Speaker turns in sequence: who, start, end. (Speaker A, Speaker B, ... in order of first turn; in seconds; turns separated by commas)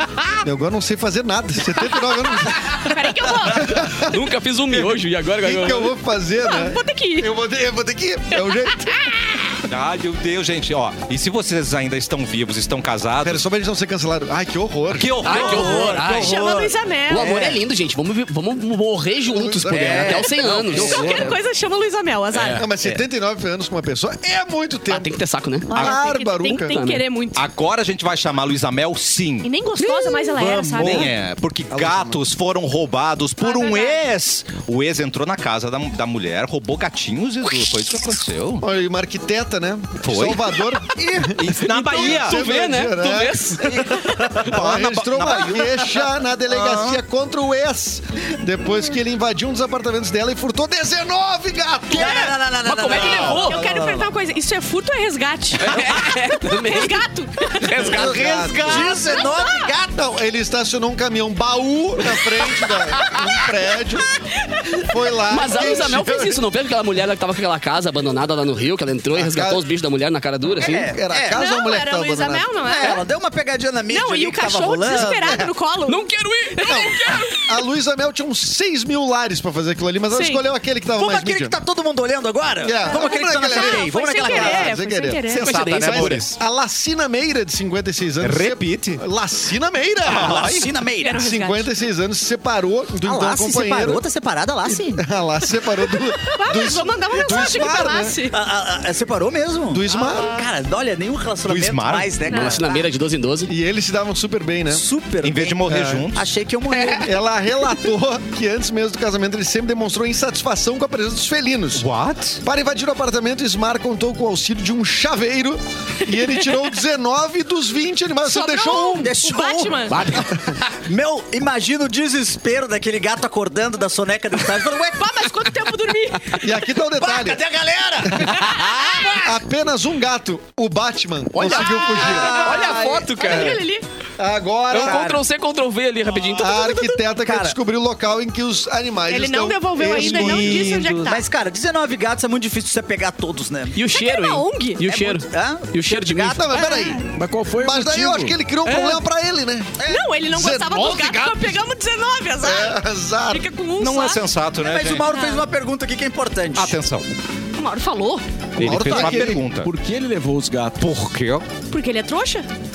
Speaker A: 0.4-4.2, Speaker B: 2.6-3.9, Speaker C: 4.0-6.0, Speaker A: 4.8-9.0, Speaker B: 6.4-7.3, Speaker B: 8.3-9.4, Speaker D: 9.7-13.4, Speaker A: 13.2-15.2, Speaker D: 14.9-16.7, Speaker C: 15.2-16.4, Speaker B: 15.3-17.4, Speaker E: 15.5-17.6, Speaker C: 17.1-21.3, Speaker A: 19.3-21.4, Speaker E: 19.7-20.9, Speaker D: 20.6-21.2, Speaker B: 20.7-22.7, Speaker C: 22.3-22.6, Speaker A: 22.6-25.1, Speaker C: 24.9-25.7, Speaker A: 25.7-26.8, Speaker B: 25.7-27.4, Speaker C: 26.6-27.0, Speaker D: 27.4-29.5, Speaker B: 29.4-31.1, Speaker E: 30.1-31.1, Speaker D: 30.4-38.6, Speaker A: 31.7-32.2, Speaker B: 33.4-34.0, Speaker A: 38.6-52.3, Speaker D: 40.0-40.6, Speaker D: 41.3-42.4, Speaker C: 41.6-44.0, Speaker E: 43.7-44.5, Speaker D: 44.3-47.0, Speaker E: 51.9-54.1, Speaker C: 52.6-53.5, Speaker B: 52.8-57.8, Speaker C: 55.6-58.9, Speaker D: 55.7-56.0, Speaker A: 57.7-59.1, Speaker E: 57.9-60.0, Speaker B: 58.7-59.7, Speaker A: 59.9-64.2, Speaker B: 64.1-64.9, Speaker A: 64.8-66.4, Speaker C: 65.3-70.9, Speaker A: 69.1-69.6, Speaker E: 70.6-71.4, Speaker A: 70.8-72.5, Speaker B: 71.3-73.0, Speaker E: 72.6-75.5, Speaker B: 73.9-76.0, Speaker C: 75.9-77.2, Speaker B: 76.6-77.4, Speaker A: 76.6-81.5, Speaker B: 80.1-80.4, Speaker E: 80.9-84.8, Speaker A: 82.6-85.3, Speaker B: 82.9-85.5, Speaker D: 85.3-86.4, Speaker C: 85.4-86.3, Speaker A: 85.8-94.0, Speaker D: 88.2-89.0, Speaker D: 90.0-90.7, Speaker E: 90.1-91.3, Speaker B: 91.0-91.7, Speaker E: 93.0-95.0, Speaker A: 94.8-98.2, Speaker B: 96.3-98.4, Speaker E: 98.3-102.7, Speaker A: 99.7-100.4, Speaker D: 101.5-102.1, Speaker B: 102.3-102.8, Speaker C: 102.3-103.5, Speaker A: 103.5-104.8, Speaker E: 104.7-107.2, Speaker D: 105.2-106.3, Speaker A: 105.7-106.1, Speaker A: 107.0-111.9, Speaker D: 111.8-112.4, Speaker A: 112.4-119.1, Speaker B: 118.2-120.1, Speaker E: 118.9-125.3, Speaker C: 119.9-120.4, Speaker B: 124.9-126.5, Speaker A: 126.4-127.5, Speaker E: 127.0-129.2, Speaker A: 128.0-128.4, Speaker D: 128.5-129.0, Speaker A: 129.2-133.6, Speaker C: 131.3-133.6, Speaker B: 131.4-133.8, Speaker E: 131.9-133.1, Speaker A: 134.2-135.1, Speaker C: 134.7-137.0, Speaker E: 134.7-135.2, Speaker A: 136.3-140.8, Speaker E: 137.2-137.6, Speaker B: 139.1-141.2, Speaker D: 139.8-141.1, Speaker E: 141.0-143.8, Speaker C: 143.8-146.7, Speaker B: 143.9-144.8, Speaker E: 144.8-147.0, Speaker A: 146.2-147.1, Speaker F: 147.1-148.4, Speaker A: 147.6-149.8, Speaker B: 148.7-149.0, Speaker E: 149.8-150.1, Speaker B: 149.9-154.2, Speaker A: 150.3-151.5, Speaker A: 152.4-153.5, Speaker D: 153.8-155.1, Speaker E: 154.6-156.8, Speaker B: 155.0-155.4, Speaker D: 156.6-157.1, Speaker B: 157.6-158.2, Speaker D: 158.6-159.7, Speaker A: 158.6-159.5, Speaker F: 158.6-161.0, Speaker D: 160.8-161.5, Speaker B: 161.7-162.5